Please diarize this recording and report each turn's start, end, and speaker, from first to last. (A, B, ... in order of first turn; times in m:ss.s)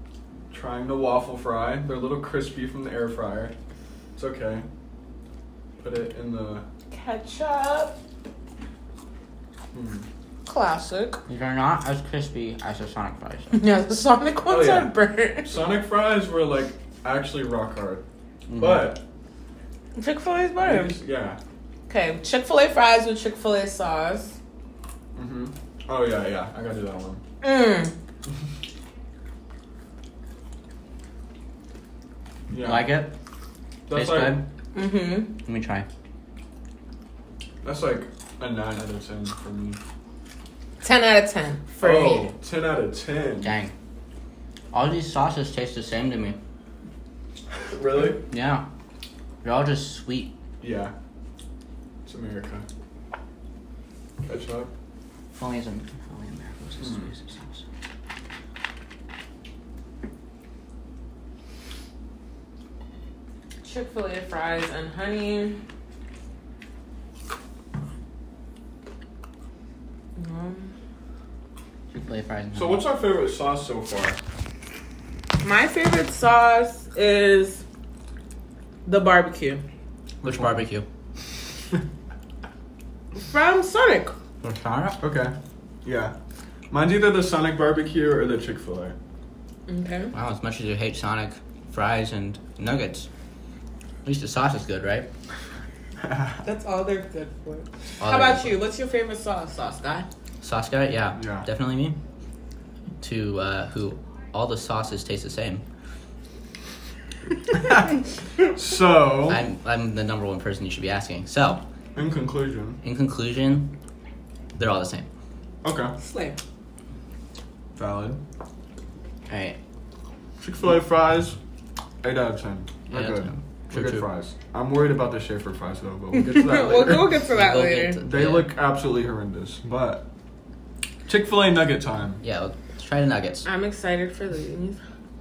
0:00.5-0:03.5 A
0:04.2-0:04.6 A
0:05.8-0:06.6 A
0:06.9-0:08.0 B
0:09.7-0:10.0 A
0:10.4-0:11.2 B
0:11.3-0:13.5 C
0:13.5-0:15.5 B
0:14.5-0:14.9 A
0:15.4-0:18.0 A
0:18.5-0:19.0 C
0:18.5-0:19.0 A
0:20.0-0:20.9 B
0:20.6-0:21.4 A
0:21.9-0:24.4 B
0:25.1-0:27.2 A
0:27.4-0:28.0 B
0:32.5-0:32.9 A
0:32.6-0:33.1 C
0:33.9-0:34.4 A
0:33.9-0:34.4 C
0:34.7-0:35.3 B
0:35.4-0:35.9 C
0:37.6-0:39.8 A
0:40.8-0:42.3 B
0:41.8-0:43.5 A
0:43.4-0:43.7 C
0:44.7-0:46.4 C
0:47.5-0:48.2 A
0:48.3-0:48.6 C
0:49.4-0:50.3 C
0:50.6-0:50.9 A
0:52.0-0:52.6 A
0:54.2-0:54.7 A
0:55.3-0:57.6 C
0:56.8-0:57.1 A
1:03.6-1:05.6 B
1:10.2-1:10.7 B
1:11.9-1:12.8 C
1:12.5-1:14.2 A
1:15.4-1:17.6 B
1:18.8-1:19.6 B
1:20.2-1:20.6 A
1:20.2-1:20.8 C
1:23.3-1:24.1 B
1:24.4-1:25.0 C
1:25.0-1:26.1 A
1:26.7-1:28.9 A
1:29.7-1:30.1 B
1:30.1-1:33.1 C
1:34.0-1:35.1 C
1:36.0-1:36.4 A
1:36.4-1:40.1 B
1:38.0-1:38.5 C
1:40.4-1:42.0 C
1:41.2-1:41.5 A
1:43.0-1:45.6 C
1:48.5-1:49.4 A
1:49.3-1:51.6 C
1:52.0-1:52.8 A
1:52.8-1:53.7 C
1:54.6-1:55.1 C
1:55.6-1:55.9 A
1:56.0-1:56.4 B
1:57.8-1:58.2 A
1:59.3-1:59.6 C
2:00.4-2:01.4 A
2:02.0-2:07.2 A
2:02.9-2:04.1 C
2:06.1-2:08.0 B
2:07.3-2:08.5 C
2:08.0-2:10.0 A
2:11.1-2:12.2 A
2:12.2-2:13.5 C
2:13.4-2:14.8 B